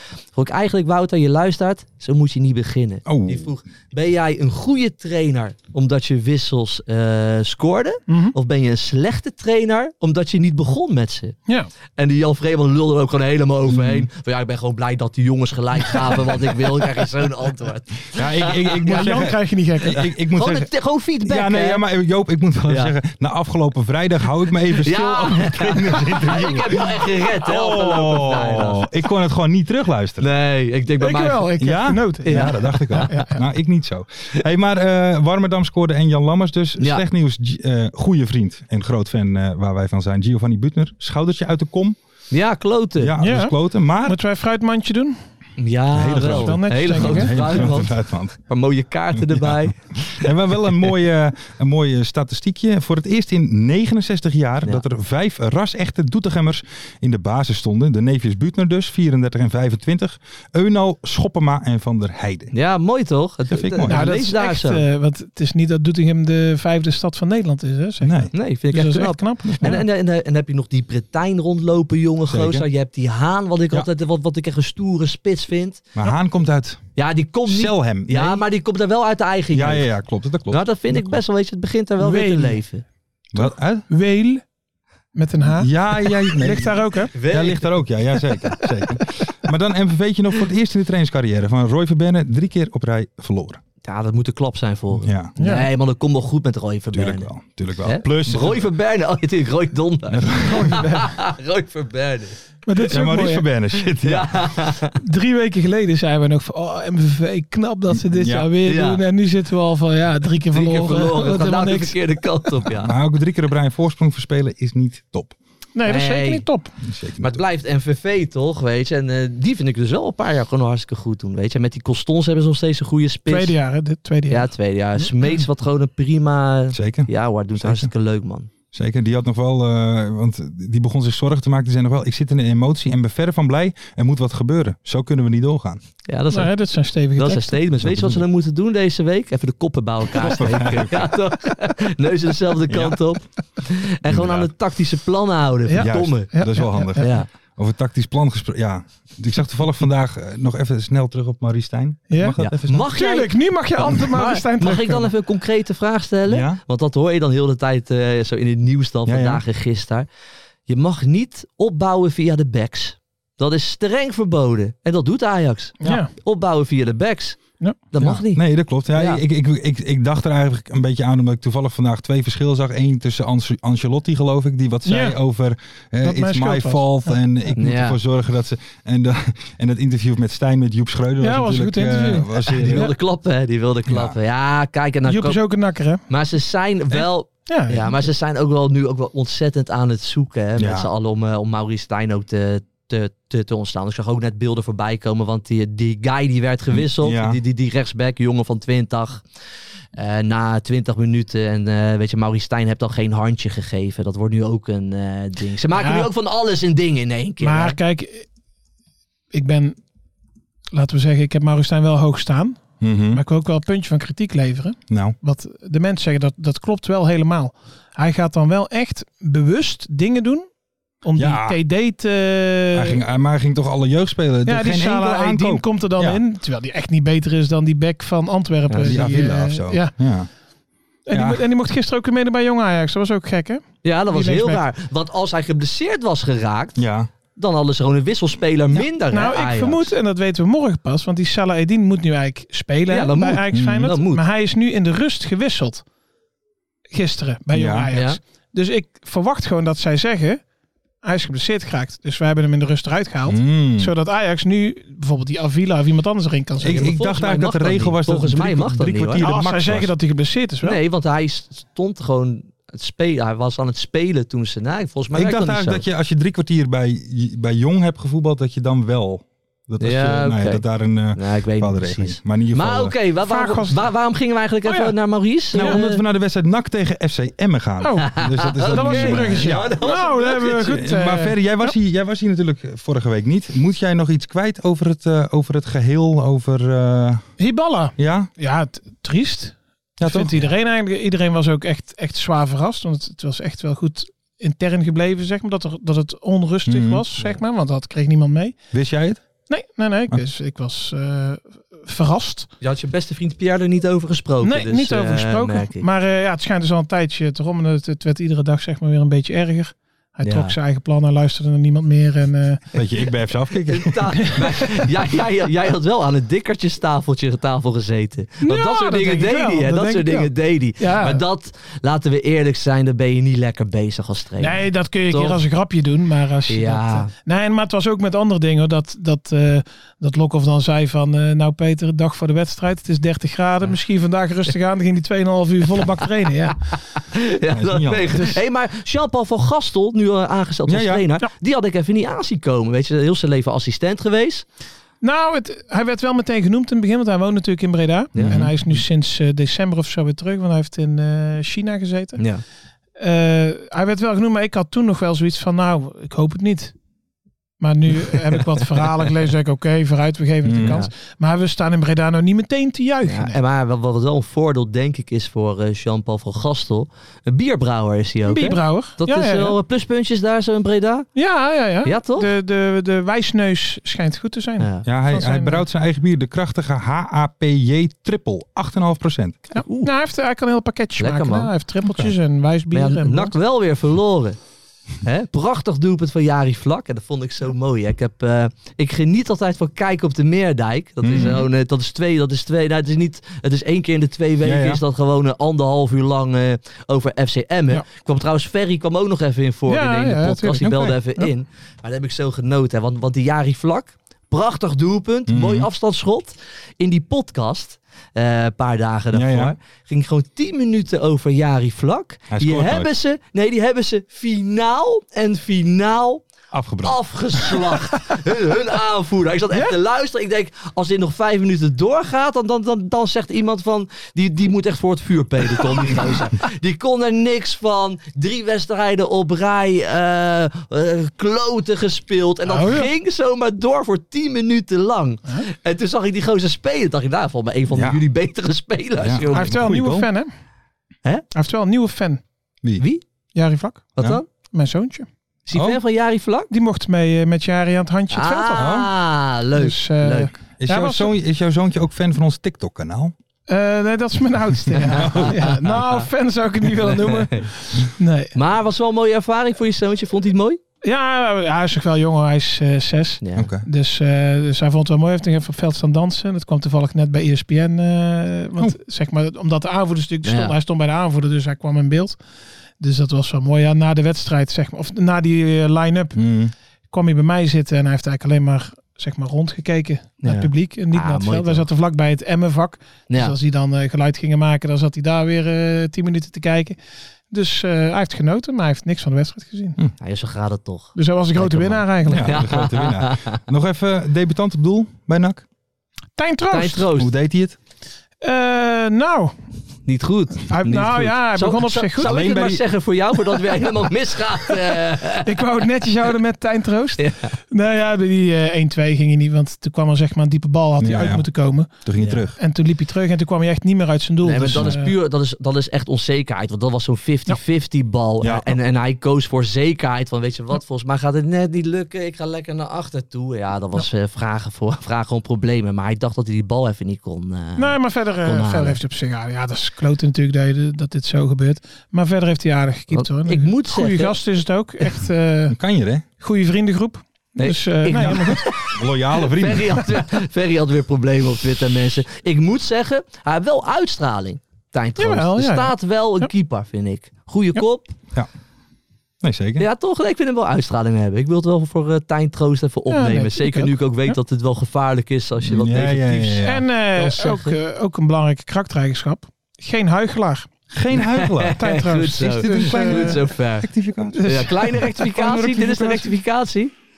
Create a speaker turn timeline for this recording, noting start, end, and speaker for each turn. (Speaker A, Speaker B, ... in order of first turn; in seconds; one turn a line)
Speaker A: 0.3-11.4
Speaker B: 3.1-3.5
Speaker C: 8.1-8.3
Speaker A: 12.0-19.3
Speaker B: 13.7-14.1
Speaker B: 18.1-30.3
Speaker C: 18.9-20.0
Speaker A: 19.9-21.8
Speaker A: 22.7-22.9
Speaker A: 24.8-28.9
Speaker A: 30.2-31.5
Speaker C: 31.0-33.4
Speaker B: 31.6-42.0
Speaker A: 32.2-33.3
Speaker A: 42.3-43.1
Speaker B: 43.0-44.2
Speaker C: 43.2-45.2
Speaker A: 45.6-50.3
Speaker B: 45.9-48.4
Speaker C: 46.2-47.7
Speaker B: 49.1-62.5
Speaker A: 62.5-64.8
Speaker B: 63.5-64.1
Speaker C: 63.9-69.8
Speaker B: 68.0-68.3
Speaker A: 68.3-75.9
Speaker B: 69.5-69.8
Speaker B: 72.3-72.7
Speaker B: 76.0-76.9
Speaker A: 77.0-79.9
Speaker B: 77.5-78.4
Speaker B: 79.5-81.1
Speaker A: 80.5-82.8
Speaker C: 82.0-82.6
Speaker B: 83.3-83.9
Speaker C: 83.4-84.4
Speaker C: 85.2-85.7
Speaker B: 85.4-93.6
Speaker C: 86.3-87.1
Speaker A: 87.1-87.8
Speaker A: 93.8-97.3
Speaker B: 95.0-95.3
Speaker C: 95.4-95.7
Speaker B: 96.9-98.7
Speaker A: 97.8-102.4
Speaker B: 100.1-100.9
Speaker C: 100.5-101.1
Speaker C: 102.7-103.5
Speaker B: 102.8-104.5
Speaker A: 104.0-105.0
Speaker C: 105.0-112.2
Speaker B: 107.9-108.5
Speaker A: 108.6-109.0
Speaker A: 110.5-112.9
Speaker B: 112.8-115.4
Speaker C: 115.8-116.7
Speaker A: 115.9-116.5
Speaker B: 116.8-117.4
Speaker A: 117.2-123.6
Speaker C: 123.3-125.4
Speaker A: 124.3-128.5
Speaker B: 126.7-127.9
Speaker B: 128.7-135.8
Speaker A: 136.1-136.5
Speaker C: 136.3-137.6
Speaker A: 137.2-146.3
Speaker B: 137.8-138.2
Speaker B: 140.2-141.2
Speaker B: 142.7-143.0
Speaker B: 144.1-144.5
Speaker C: 145.7-147.1
Speaker B: 145.8-152.9
Speaker A: 147.0-147.3
Speaker C: 152.1-152.4
Speaker A: 152.4-160.1
Speaker C: 152.9-155.1
Speaker B: 156.3-156.6
Speaker B: 159.1-159.4
Speaker A: 160.7-169.2
Speaker C: 165.8-166.1
Speaker B: 168.0-182.9
Speaker C: 174.9-175.2
Speaker C: 176.0-177.2
Speaker A: 177.6-178.0
Speaker C: 181.2-182.9
Speaker A: 182.5-185.4
Speaker B: 183.9-184.2
Speaker C: 185.1-186.0
Speaker A: 186.1-199.2
Speaker C: 187.5-188.1
Speaker B: 190.6-190.9
Speaker B: 196.7-197.4
Speaker A: 200.0-207.8
Speaker C: 205.7-206.1
Speaker C: 207.4-208.3
Speaker C: 209.3-209.8
Speaker C: 210.7-212.6
Speaker B: 212.8-213.2
Speaker C: 213.1-220.5
Speaker B: 214.9-215.2
Speaker C: 221.0-223.0
Speaker B: 221.2-221.6
Speaker B: 222.7-226.2
Speaker C: 224.5-229.9
Speaker A: 228.7-229.0
Speaker B: 228.8-230.3
Speaker C: 231.1-234.6
Speaker B: 231.1-231.5
Speaker A: 233.8-236.8
Speaker B: 236.8-237.1
Speaker A: 237.3-239.9
Speaker C: 239.1-245.8
Speaker A: 242.9-244.2
Speaker B: 243.5-243.9
Speaker C: 246.9-250.4
Speaker B: 247.5-247.9
Speaker A: 247.9-248.2
Speaker C: 251.0-256.9
Speaker B: 253.3-253.9
Speaker B: 256.6-259.9
Speaker A: 256.6-259.3
Speaker C: 259.2-260.8
Speaker A: 260.6-265.8
Speaker B: 265.1-272.9
Speaker A: 269.8-276.0
Speaker C: 273.2-273.9
Speaker C: 274.6-274.9
Speaker B: 275.5-279.7
Speaker C: 275.6-275.9
Speaker C: 277.8-281.7
Speaker A: 278.0-280.8
Speaker B: 280.7-287.2
Speaker C: 287.4-298.6
Speaker B: 288.0-288.3
Speaker B: 290.0-290.3
Speaker B: 296.7-297.0
Speaker B: 298.7-299.2
Speaker C: 299.5-302.5
Speaker A: 302.6-305.9
Speaker C: 304.4-312.6
Speaker A: 310.2-310.6
Speaker B: 312.7-314.4
Speaker A: 313.7-325.4
Speaker C: 318.4-321.2
Speaker C: 324.4-336.6
Speaker A: 326.5-327.1
Speaker A: 337.1-344.4
Speaker B: 337.5-338.2
Speaker B: 340.7-341.1
Speaker C: 345.0-352.2
Speaker A: 348.1-348.5
Speaker B: 348.2-348.8
Speaker A: 352.2-352.4
Speaker C: 353.0-356.7
Speaker C: 357.6-363.4
Speaker B: 360.4-360.8
Speaker A: 360.6-360.9
Speaker A: 363.1-371.1
Speaker C: 368.3-369.6
Speaker C: 371.2-375.6
Speaker A: 371.8-372.3
Speaker A: 374.6-374.9
Speaker B: 374.9-379.4
Speaker C: 379.5-383.4
Speaker A: 379.6-379.9
Speaker A: 381.0-381.5
Speaker B: 381.9-382.1
Speaker A: 382.7-384.4
Speaker A: 385.0-416.2
Speaker B: 391.0-391.5
Speaker B: 394.4-394.8
Speaker C: 399.7-401.3
Speaker B: 400.6-400.9
Speaker B: 405.3-405.7
Speaker B: 409.1-409.6
Speaker B: 412.3-412.9
Speaker B: 416.5-417.6
Speaker A: 416.8-439.5
Speaker C: 432.5-432.9
Speaker B: 437.7-438.0
Speaker B: 439.0-440.1
Speaker C: 439.3-440.3
Speaker C: 441.3-442.2
Speaker C: 443.4-445.1
Speaker A: 444.0-444.3
Speaker A: 445.5-446.5
Speaker B: 445.5-445.8
Speaker C: 446.5-448.9
Speaker A: 448.1-450.3
Speaker B: 448.6-448.9
Speaker C: 449.6-451.1
Speaker B: 450.6-453.1
Speaker C: 453.5-458.3
Speaker A: 454.9-456.0
Speaker B: 454.9-455.3
Speaker A: 456.8-457.5
Speaker A: 458.4-460.6
Speaker C: 460.8-472.2
Speaker A: 463.2-463.5
Speaker B: 463.4-463.7
Speaker A: 470.2-470.5
Speaker C: 472.8-476.2
Speaker B: 476.2-476.5
Speaker C: 476.9-486.8
Speaker A: 480.2-481.7
Speaker A: 483.1-483.4
Speaker C: 487.3-489.8
Speaker A: 490.0-493.4
Speaker C: 490.9-492.5
Speaker B: 492.1-495.4
Speaker C: 496.2-496.9
Speaker A: 496.5-497.1
Speaker B: 497.0-497.6
Speaker C: 498.2-499.4
Speaker A: 499.9-505.4
Speaker C: 500.5-502.2
Speaker B: 502.0-502.6
Speaker C: 504.7-511.8
Speaker A: 507.0-507.3
Speaker B: 510.8-511.3
Speaker B: 511.8-512.4
Speaker C: 512.4-514.9
Speaker A: 514.2-528.8
Speaker B: 518.2-518.5
Speaker C: 527.6-535.6
Speaker A: 532.9-534.1
Speaker B: 535.5-536.0
Speaker C: 536.2-538.5
Speaker A: 537.4-547.9
Speaker B: 538.0-540.0
Speaker C: 545.0-546.3
Speaker B: 549.2-549.7
Speaker A: 549.6-556.4
Speaker C: 552.9-554.1
Speaker B: 555.5-556.7
Speaker C: 556.4-560.5
Speaker A: 556.9-557.6
Speaker B: 560.7-561.6
Speaker A: 561.0-563.7
Speaker C: 561.6-563.2
Speaker B: 562.4-564.5
Speaker C: 564.2-566.0
Speaker A: 564.2-566.7
Speaker B: 565.2-566.0